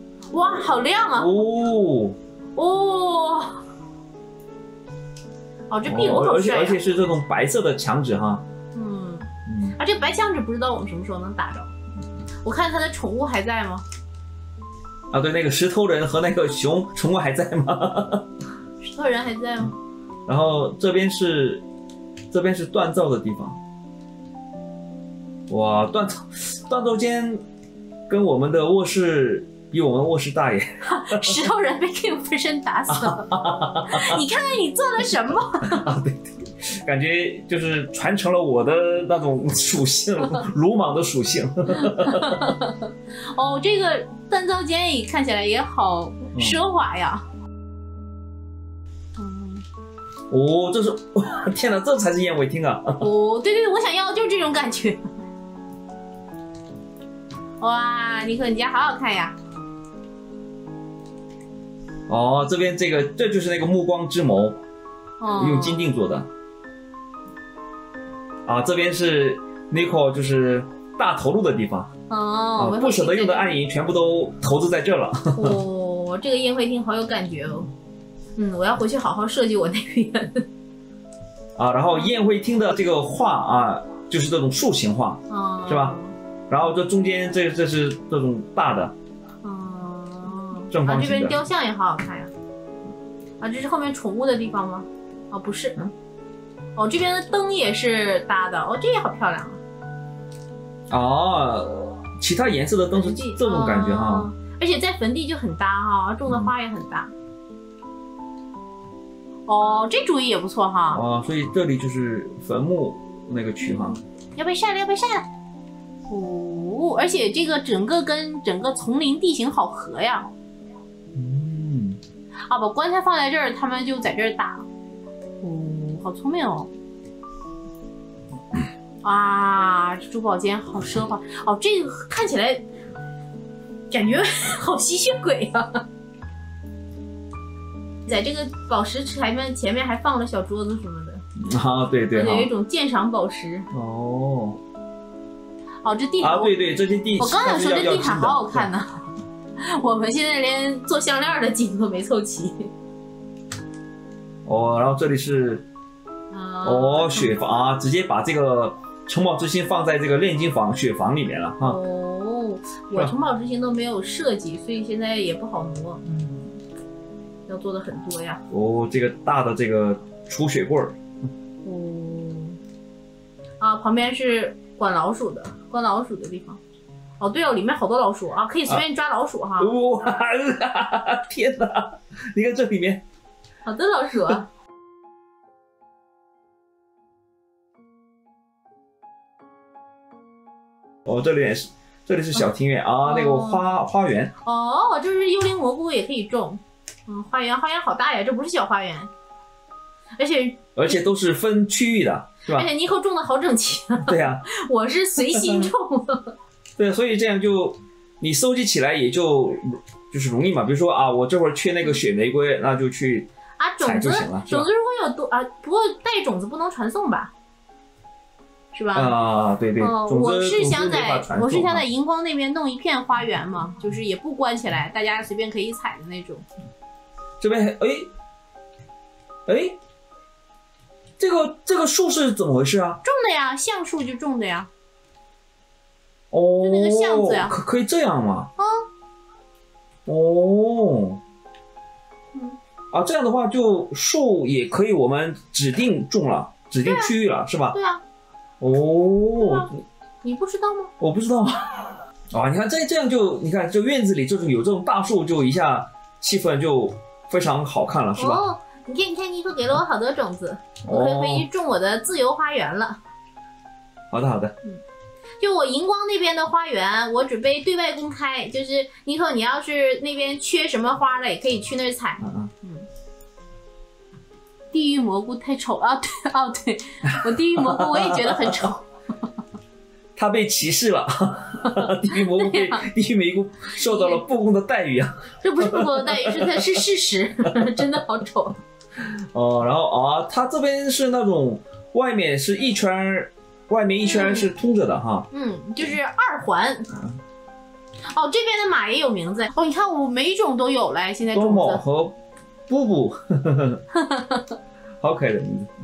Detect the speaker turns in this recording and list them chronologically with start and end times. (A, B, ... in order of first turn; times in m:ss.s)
0:00.3-0:01.3 A
0:01.2-0:02.2 B
0:02.5-0:03.6 A
0:05.7-0:06.8 A
0:05.8-0:08.4 B
0:08.7-0:11.7 A
0:09.5-0:09.8 B
0:12.4-0:13.8 A
0:15.1-0:18.3 B
0:18.8-0:19.8 A
0:20.3-0:21.6 B
0:22.3-0:23.6 B
0:25.5-0:27.4 B
0:28.1-0:31.4 B
0:30.8-0:33.3 A
0:32.9-0:34.2 B
0:33.9-0:35.9 A
0:35.6-0:42.5 B
0:41.7-0:47.2 A
0:49.2-0:49.6 A
0:50.3-0:53.0 B
0:53.0-0:55.1 A
0:57.6-0:59.4 A
1:02.1-1:04.6 B
1:05.2-1:05.8 A
1:05.4-1:06.3 B
1:08.4-1:11.9 B
1:12.1-1:13.5 A
1:12.6-1:15.6 B
1:15.4-1:17.7 A
1:18.4-1:20.4 A
1:21.6-1:26.0 B
1:25.3-1:26.1 A
1:26.5-1:29.0 B
1:29.4-1:32.3 A
1:30.7-1:31.4 B
1:33.4-1:35.8 A
1:36.8-1:39.6 A
1:40.9-1:44.3 B
1:42.9-1:47.1 A
1:46.3-1:46.5 B
1:49.4-1:51.0 A
1:50.9-1:54.0 B
1:53.6-1:55.3 A
1:56.1-2:00.3 A
2:01.1-2:02.0 B
2:02.5-2:04.6 A
2:05.4-2:06.7 A
2:09.0-2:12.7 A
2:13.9-2:15.8 A
2:18.0-2:21.2 A
2:21.4-2:22.5 B
2:22.1-2:23.7 A
2:23.7-2:24.6 B
2:25.8-2:26.5 A
2:26.2-2:28.7 B
2:27.2-2:32.7 A
2:34.4-2:35.6 B
2:36.3-2:37.3 A
2:36.6-2:41.8 B
2:41.6-2:46.0 A
2:47.5-2:48.4 A
2:48.5-2:51.0 B
2:51.6-2:52.6 A
2:53.6-2:56.6 A
2:57.2-2:59.8 A
2:59.6-3:03.0 B
3:03.6-3:04.5 A
3:11.0-3:14.3 B
3:13.0-3:13.6 A
3:14.4-3:19.1 A
3:20.2-3:21.0 A
3:20.8-3:22.7 B
3:22.4-3:26.3 A
3:24.0-3:24.4 B
3:25.2-3:25.7 B
3:26.8-3:33.3 B
3:33.6-3:37.3 A
3:33.8-3:34.7 B
3:38.7-3:39.2 A
3:38.9-3:41.8 B
3:39.8-3:46.4 A
3:47.4-3:48.1 B
3:49.4-3:49.8 B
3:51.2-3:53.0 B
3:53.0-3:54.7 A
3:56.3-3:58.5 B
3:56.6-3:57.6 A
3:58.6-3:58.8 A
4:00.0-4:01.2 B
4:02.9-4:07.8 B
4:06.8-4:07.1 A
4:07.7-4:08.0 A
4:08.6-4:09.7 B
4:09.4-4:09.7 A
4:10.2-4:10.9 A
4:11.0-4:18.4 B
4:18.2-4:23.0 A
4:20.8-4:21.5 B
4:24.1-4:24.5 B
4:25.4-4:32.9 A
4:32.2-4:32.5 B
4:34.7-4:38.8 A
4:37.2-4:38.6 B
4:40.2-4:46.7 B
4:42.1-4:42.9 A
4:43.7-4:44.2 A
4:45.4-4:48.6 A
4:49.3-4:55.3 B
4:54.0-4:54.5 A
4:55.3-4:57.0 A
4:58.1-5:01.8 A
5:01.3-5:03.8 B
5:03.9-5:04.6 A
5:05.0-5:05.7 B